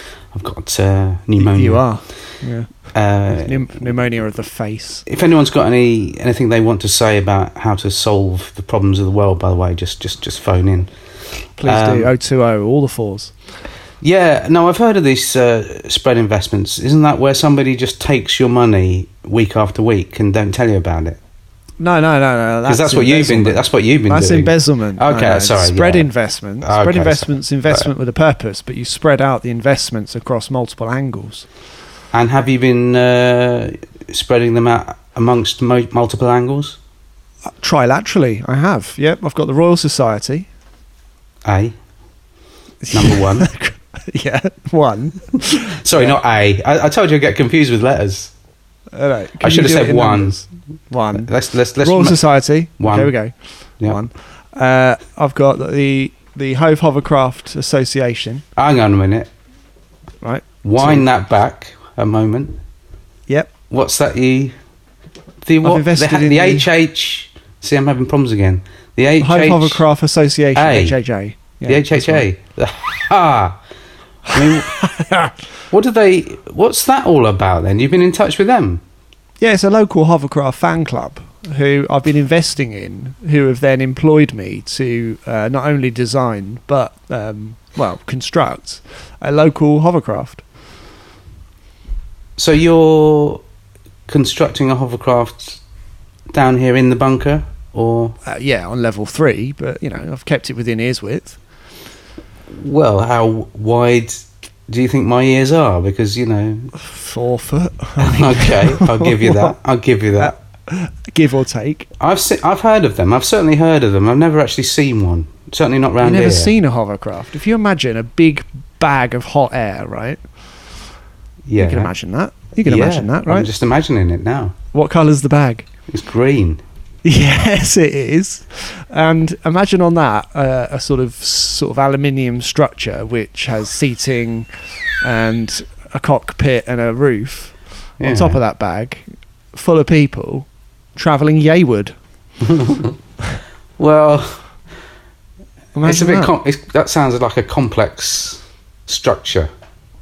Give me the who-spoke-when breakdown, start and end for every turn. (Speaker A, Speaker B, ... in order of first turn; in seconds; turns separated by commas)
Speaker A: 0.3-1.8, Speaker B: 1.4-2.7, Speaker A: 2.9-3.7, Speaker B: 3.3-5.1, Speaker A: 5.1-10.9, Speaker B: 11.6-13.3, Speaker A: 11.6-12.1, Speaker A: 14.0-21.2, Speaker B: 21.8-31.5, Speaker A: 22.7-26.1, Speaker A: 26.6-27.9, Speaker A: 32.1-36.8, Speaker B: 37.6-40.5, Speaker A: 41.5-41.8, Speaker B: 42.8-46.2, Speaker A: 42.9-43.5, Speaker A: 45.5-48.3, Speaker B: 48.9-53.3, Speaker A: 49.4-50.4, Speaker A: 51.1-52.2, Speaker A: 52.8-53.1, Speaker B: 53.9-58.4, Speaker A: 58.6-59.3, Speaker B: 60.2-61.1, Speaker A: 60.6-62.6, Speaker A: 63.7-64.5, Speaker A: 65.5-69.8, Speaker B: 65.6-66.7, Speaker B: 69.2-72.3, Speaker A: 70.5-71.0, Speaker A: 71.7-73.6, Speaker B: 74.3-75.4, Speaker A: 74.3-74.7, Speaker A: 75.7-78.8, Speaker B: 79.4-90.4, Speaker A: 92.4-93.4, Speaker A: 94.1-95.6, Speaker A: 96.3-98.2, Speaker B: 98.2-101.4, Speaker A: 102.5-106.7, Speaker B: 106.8-109.5, Speaker A: 108.0-110.3, Speaker B: 110.2-111.9, Speaker A: 112.0-116.5, Speaker B: 116.0-120.2, Speaker A: 121.5-121.9, Speaker B: 121.6-123.5, Speaker A: 122.7-124.5, Speaker B: 124.7-125.7, Speaker A: 125.9-126.6, Speaker B: 127.0-134.5, Speaker B: 135.0-139.0, Speaker A: 138.0-138.4, Speaker B: 139.5-141.9, Speaker A: 142.4-143.0, Speaker A: 143.8-144.4, Speaker B: 145.8-146.3, Speaker A: 145.8-149.5